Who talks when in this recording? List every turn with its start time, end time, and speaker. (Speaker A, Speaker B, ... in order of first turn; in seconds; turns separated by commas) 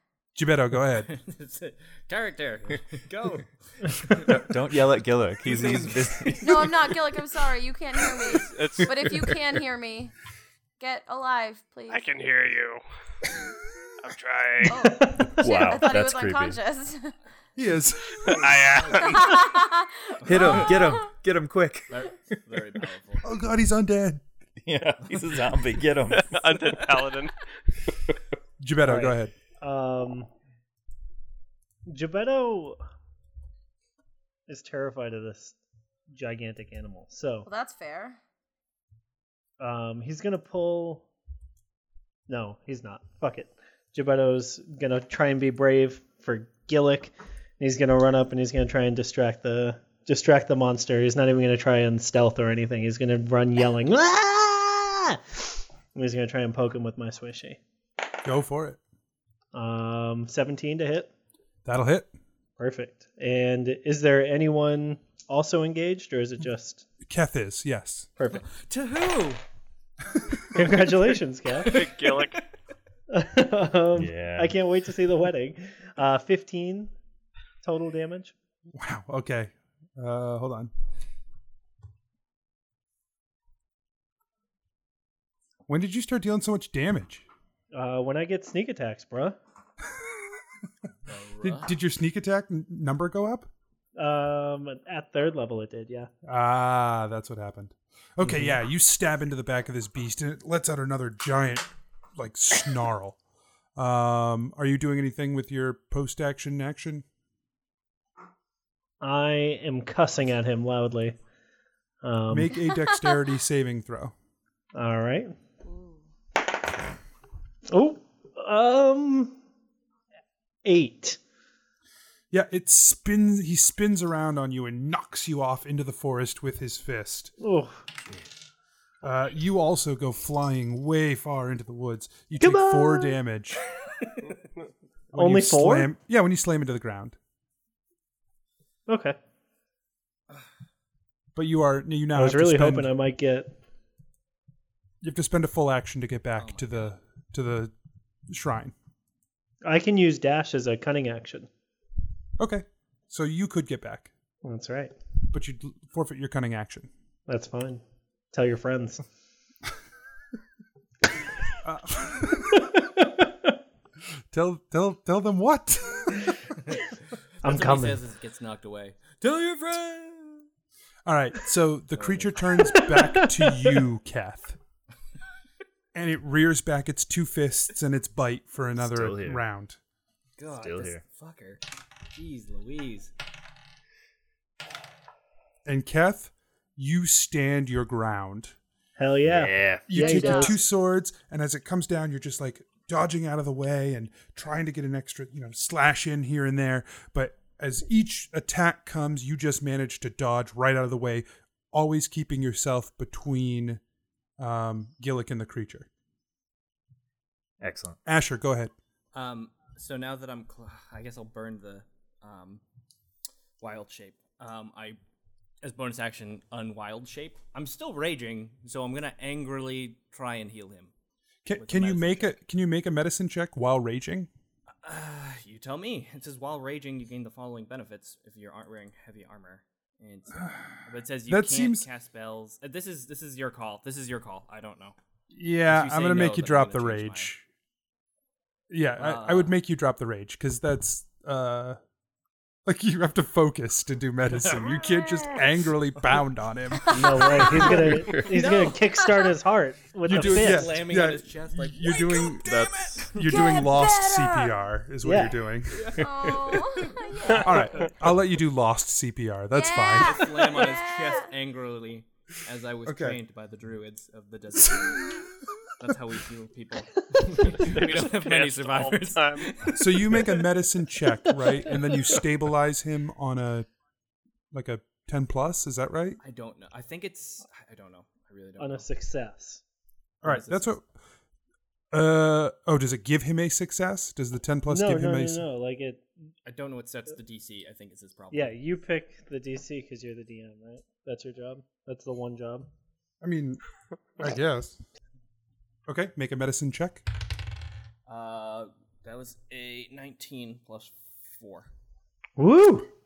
Speaker A: 0.3-1.1, Speaker B: 1.1-4.5, Speaker C: 4.1-7.0, Speaker B: 5.4-6.4, Speaker D: 6.4-10.1, Speaker E: 8.4-8.9, Speaker C: 9.0-9.4, Speaker D: 10.8-12.1, Speaker E: 11.9-12.8, Speaker E: 14.0-14.8, Speaker D: 14.7-17.1, Speaker F: 14.8-15.4, Speaker C: 15.2-16.6, Speaker A: 17.6-18.6, Speaker E: 18.3-19.2, Speaker B: 18.3-19.3, Speaker D: 19.0-21.1, Speaker B: 20.2-20.8, Speaker C: 20.2-22.6, Speaker B: 21.9-23.2, Speaker A: 23.2-24.2, Speaker C: 24.6-26.4, Speaker E: 26.1-27.3, Speaker A: 28.6-29.3, Speaker F: 28.8-30.3, Speaker F: 31.9-32.8, Speaker F: 34.5-35.6, Speaker F: 36.1-37.5, Speaker D: 37.5-38.2, Speaker F: 39.6-41.0, Speaker F: 42.3-57.6, Speaker A: 58.2-58.8, Speaker F: 59.5-61.1, Speaker A: 61.6-62.1, Speaker F: 62.6-66.9, Speaker A: 67.0-68.1, Speaker F: 68.2-68.4, Speaker B: 68.3-69.4, Speaker F: 70.5-71.7, Speaker B: 71.6-72.5, Speaker E: 71.7-72.4, Speaker F: 73.1-76.9, Speaker C: 74.0-74.5, Speaker F: 77.6-78.3, Speaker A: 78.7-80.7, Speaker A: 85.7-87.2, Speaker F: 87.7-89.4, Speaker B: 91.0-91.7, Speaker A: 91.4-93.5, Speaker F: 94.0-96.1, Speaker A: 96.2-103.2, Speaker F: 98.2-98.5, Speaker A: 103.8-107.0, Speaker F: 109.0-111.2, Speaker F: 112.0-112.5, Speaker A: 112.3-114.1, Speaker F: 114.7-115.3, Speaker D: 115.6-116.0, Speaker F: 117.7-119.4, Speaker F: 120.6-121.2, Speaker A: 122.3-127.3, Speaker F: 127.4-127.8, Speaker A: 129.0-133.7, Speaker F: 132.4-133.2, Speaker B: 134.0-134.3, Speaker A: 135.1-137.2, Speaker F: 135.1-135.9, Speaker F: 138.9-139.2, Speaker A: 141.3-142.9, Speaker F: 142.1-143.6, Speaker A: 145.0-147.7, Speaker B: 146.4-146.9, Speaker A: 148.3-148.7, Speaker F: 149.6-151.5, Speaker A: 152.4-154.1, Speaker F: 154.4-154.9, Speaker A: 155.3-156.9, Speaker F: 157.3-159.0, Speaker A: 161.6-162.7, Speaker F: 162.6-163.3, Speaker A: 164.3-166.3, Speaker F: 167.4-168.0, Speaker B: 167.4-170.5, Speaker A: 171.1-174.6, Speaker B: 171.9-172.3, Speaker F: 172.7-173.7, Speaker A: 175.9-179.8, Speaker C: 178.8-179.4, Speaker B: 180.4-181.6, Speaker C: 180.6-181.0, Speaker B: 182.1-183.1, Speaker A: 185.6-188.6, Speaker F: 189.0-190.6, Speaker C: 189.3-190.0, Speaker A: 189.9-203.8, Speaker D: 190.0-190.6, Speaker A: 204.4-205.9, Speaker C: 207.6-208.0, Speaker A: 208.1-208.7, Speaker B: 209.1-212.6, Speaker B: 213.6-215.0, Speaker B: 215.6-220.9, Speaker A: 221.4-224.3, Speaker B: 221.6-222.3, Speaker B: 224.8-234.9, Speaker A: 231.3-231.9, Speaker A: 235.3-237.4, Speaker B: 235.6-237.3, Speaker A: 238.7-241.8, Speaker B: 239.0-239.5, Speaker A: 242.6-247.6, Speaker B: 244.4-244.8, Speaker F: 246.9-250.7, Speaker D: 247.2-247.6, Speaker B: 247.6-248.8, Speaker C: 247.9-248.3, Speaker A: 250.1-256.1, Speaker B: 250.1-253.6, Speaker C: 252.4-253.2, Speaker D: 253.2-254.6, Speaker F: 255.0-255.4, Speaker B: 255.7-257.9, Speaker D: 256.0-257.8, Speaker A: 257.3-260.3, Speaker D: 259.5-261.3, Speaker B: 260.0-270.4, Speaker A: 262.8-263.2, Speaker E: 267.5-269.5, Speaker A: 269.7-273.7, Speaker A: 274.5-276.2, Speaker B: 276.2-278.9, Speaker F: 278.6-279.6, Speaker B: 280.2-280.7, Speaker A: 280.2-280.8, Speaker A: 281.9-285.4, Speaker F: 284.7-286.1, Speaker B: 286.4-288.6, Speaker F: 288.3-292.7, Speaker A: 293.2-293.6, Speaker A: 294.2-294.8, Speaker A: 295.9-297.1, Speaker B: 298.1-301.7, Speaker F: 302.4-302.9